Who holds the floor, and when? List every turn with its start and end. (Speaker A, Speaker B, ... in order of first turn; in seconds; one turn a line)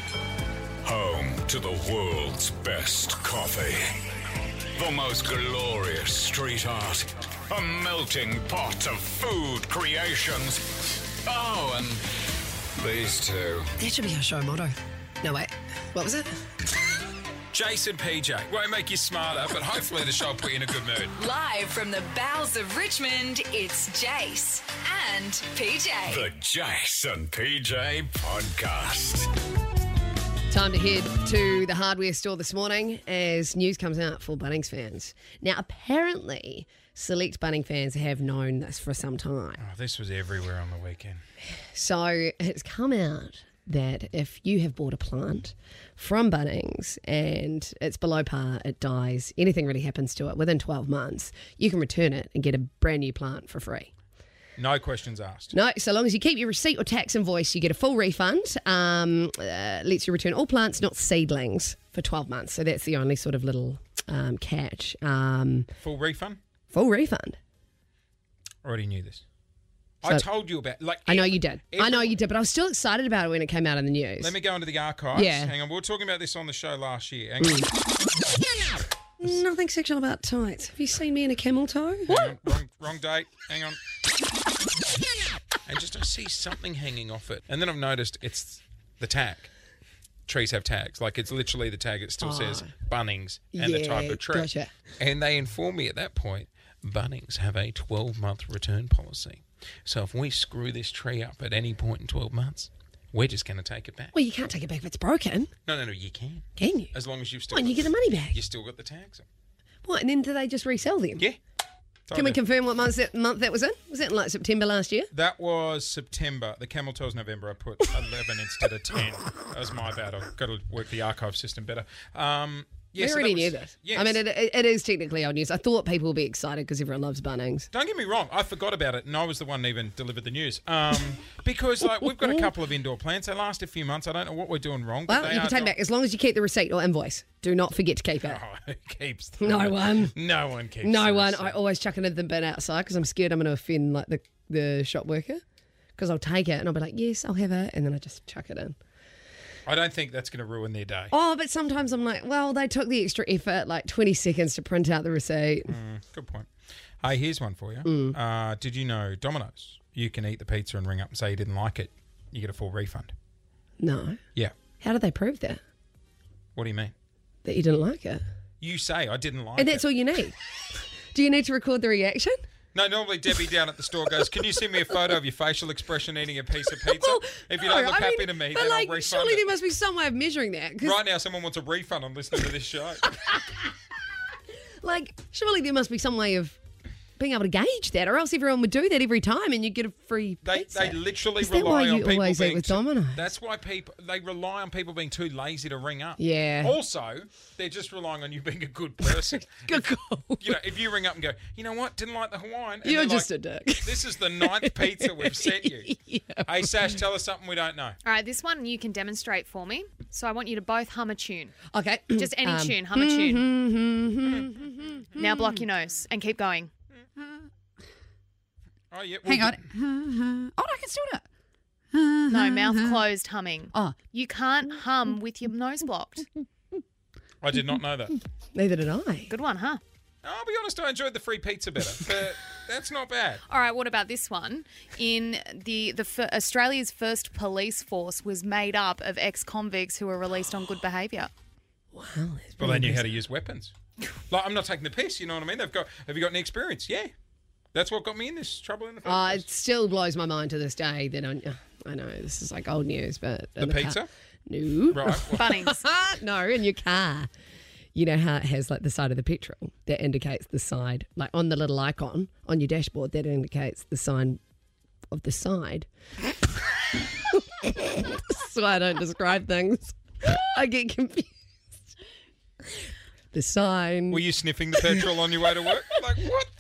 Speaker A: 0.8-3.9
Speaker A: 4.8-10.6
Speaker A: 11.2-12.0
Speaker A: 12.8-13.7
Speaker B: 13.8-16.4
Speaker C: 17.5-21.2
Speaker D: 21.2-26.3
Speaker A: 26.1-29.3
Speaker B: 30.5-39.6
Speaker C: 39.6-41.2
Speaker B: 41.5-53.9
Speaker C: 54.6-55.5
Speaker B: 55.5-65.7
Speaker C: 65.8-66.4
Speaker B: 66.7-67.4
Speaker C: 68.6-69.2
Speaker C: 70.0-72.1
Speaker B: 71.1-74.3
Speaker C: 74.2-77.6
Speaker B: 75.1-75.5
Speaker B: 77.4-77.7
Speaker B: 79.2-82.3
Speaker C: 82.1-83.8
Speaker C: 85.7-89.5
Speaker C: 90.3-104.1
Speaker B: 92.2-92.7
Speaker B: 93.5-94.7
Speaker B: 104.1-105.5
Speaker C: 105.7-107.8
Speaker B: 106.6-107.0
Speaker B: 107.5-108.4
Speaker C: 108.3-109.2
Speaker B: 109.8-111.3
Speaker C: 112.1-112.4
Speaker B: 112.1-115.1
Speaker C: 115.1-124.2
Speaker B: 123.0-127.7
Speaker C: 127.7-135.7
Speaker B: 131.8-132.5
Speaker B: 135.1-138.4
Speaker C: 138.2-141.6
Speaker B: 139.4-140.1
Speaker B: 140.8-145.4
Speaker B: 146.0-148.8
Speaker C: 149.7-151.1
Speaker B: 151.1-155.7
Speaker C: 155.7-156.5
Speaker C: 157.0-163.1
Speaker B: 157.8-158.2
Speaker B: 163.8-164.2
Speaker B: 164.8-165.6
Speaker C: 166.6-166.9
Speaker B: 167.4-168.2
Speaker C: 168.6-169.8
Speaker B: 169.6-172.4
Speaker C: 172.7-179.5
Speaker B: 176.8-181.0
Speaker C: 180.8-183.0
Speaker B: 183.1-183.7
Speaker B: 184.8-186.6
Speaker B: 187.2-193.3
Speaker C: 190.4-199.9
Speaker B: 196.2-196.8
Speaker B: 199.2-200.6
Speaker C: 200.4-203.3
Speaker B: 202.8-206.9
Speaker C: 203.8-205.9
Speaker C: 206.5-208.0
Speaker E: 208.1-211.6
Speaker B: 211.7-215.6
Speaker E: 212.1-213.4
Speaker E: 215.2-216.7
Speaker C: 218.9-219.7
Speaker F: 219.3-221.2
Speaker F: 221.9-223.0
Speaker E: 222.3-226.3
Speaker C: 227.4-228.2
Speaker B: 228.5-229.3
Speaker E: 229.3-229.8
Speaker C: 230.2-233.4
Speaker E: 233.5-241.3
Speaker B: 241.9-243.1
Speaker C: 242.6-243.7
Speaker C: 244.3-247.1
Speaker C: 247.7-249.4
Speaker B: 249.0-257.3
Speaker C: 253.6-254.1
Speaker C: 254.9-255.4
Speaker E: 255.4-255.8
Speaker B: 257.9-264.4
Speaker B: 265.1-265.9
Speaker B: 267.3-271.8
Speaker B: 273.3-274.2
Speaker C: 274.1-276.5
Speaker B: 274.8-275.1